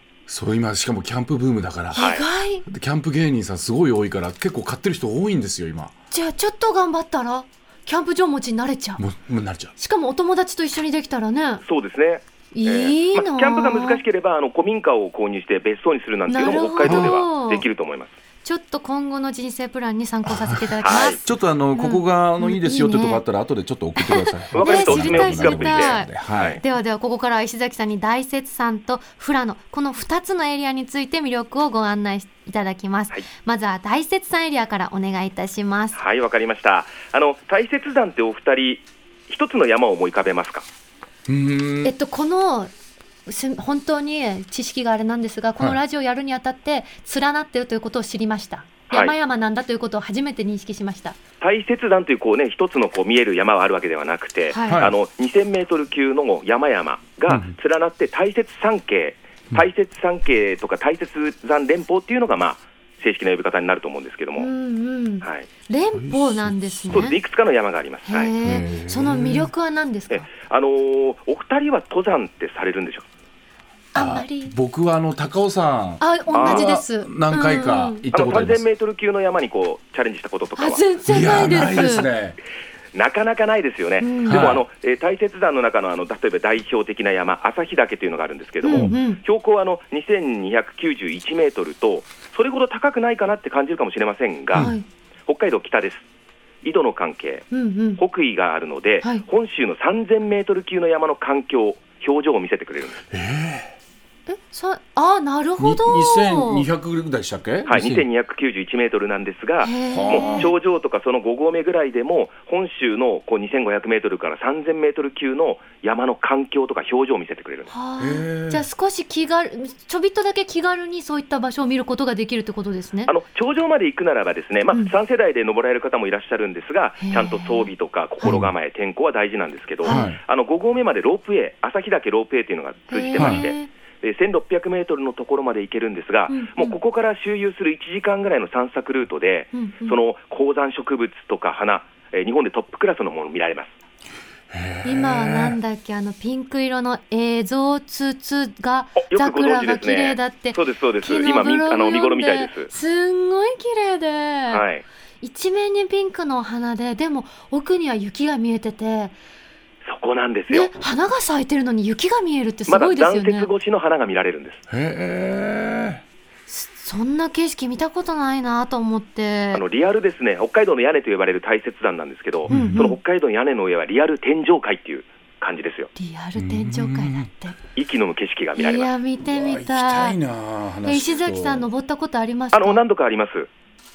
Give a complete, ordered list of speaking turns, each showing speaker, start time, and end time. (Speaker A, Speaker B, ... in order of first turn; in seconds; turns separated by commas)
Speaker A: 0.3-2.1, Speaker B: 1.9-2.6, Speaker C: 2.0-2.2, Speaker A: 2.6-5.9, Speaker B: 6.1-9.0, Speaker A: 9.0-9.7, Speaker B: 9.8-11.6, Speaker C: 11.6-18.2, Speaker B: 12.5-14.0, Speaker B: 16.3-17.6, Speaker A: 16.8-17.2, Speaker B: 18.4-23.2, Speaker A: 20.3-26.6, Speaker C: 20.8-21.2, Speaker B: 24.0-36.0, Speaker C: 24.5-26.6, Speaker C: 35.9-40.6, Speaker A: 41.3-41.9, Speaker B: 41.8-42.7, Speaker B: 43.2-51.2, Speaker C: 51.4-64.5, Speaker B: 54.5-54.9, Speaker A: 54.7-55.0, Speaker A: 57.3-57.5, Speaker B: 64.4-67.2, Speaker C: 65.2-65.5, Speaker A: 66.0-67.1, Speaker C: 66.9-68.3, Speaker B: 68.1-70.3, Speaker A: 68.4-69.5, Speaker C: 70.1-73.1, Speaker B: 73.9-74.5, Speaker A: 74.0-78.6, Speaker B: 76.0-78.0, Speaker C: 76.3-76.7, Speaker C: 78.1-81.9, Speaker B: 80.6-82.1, Speaker A: 81.1-82.3, Speaker C: 82.9-94.7, Speaker B: 84.0-84.5, Speaker A: 84.2-84.6, Speaker B: 88.6-89.2, Speaker A: 88.7-89.0, Speaker A: 94.5-94.8, Speaker B: 94.5-94.9, Speaker C: 95.3-96.1, Speaker C: 96.6-103.0, Speaker B: 97.5-98.0, Speaker A: 103.1-103.8, Speaker B: 104.3-106.7, Speaker A: 105.6-108.1, Speaker C: 107.7-117.7, Speaker B: 109.6-110.5, Speaker A: 109.9-110.5, Speaker B: 117.7-123.1, Speaker A: 118.0-118.7, Speaker C: 123.1-143.7, Speaker B: 127.0-127.7, Speaker A: 128.2-128.5, Speaker B: 129.8-130.1, Speaker A: 129.8-130.2, Speaker B: 132.9-133.7, Speaker A: 133.2-133.5, Speaker B: 136.3-136.8, Speaker B: 139.5-140.0, Speaker A: 144.5-145.6, Speaker B: 144.8-154.7, Speaker C: 149.0-152.7, Speaker C: 154.5-154.8, Speaker B: 155.2-159.2, Speaker C: 159.8-160.7, Speaker B: 160.5-163.5, Speaker C: 162.7-164.6, Speaker A: 164.7-166.0, Speaker B: 166.5-169.6, Speaker C: 169.5-175.9, Speaker A: 172.5-172.8, Speaker B: 172.5-173.0, Speaker B: 175.9-177.6, Speaker A: 176.3-177.3, Speaker C: 177.8-178.9, Speaker B: 178.6-180.2, Speaker A: 179.2-181.7, Speaker B: 180.8-182.8, Speaker C: 182.5-183.5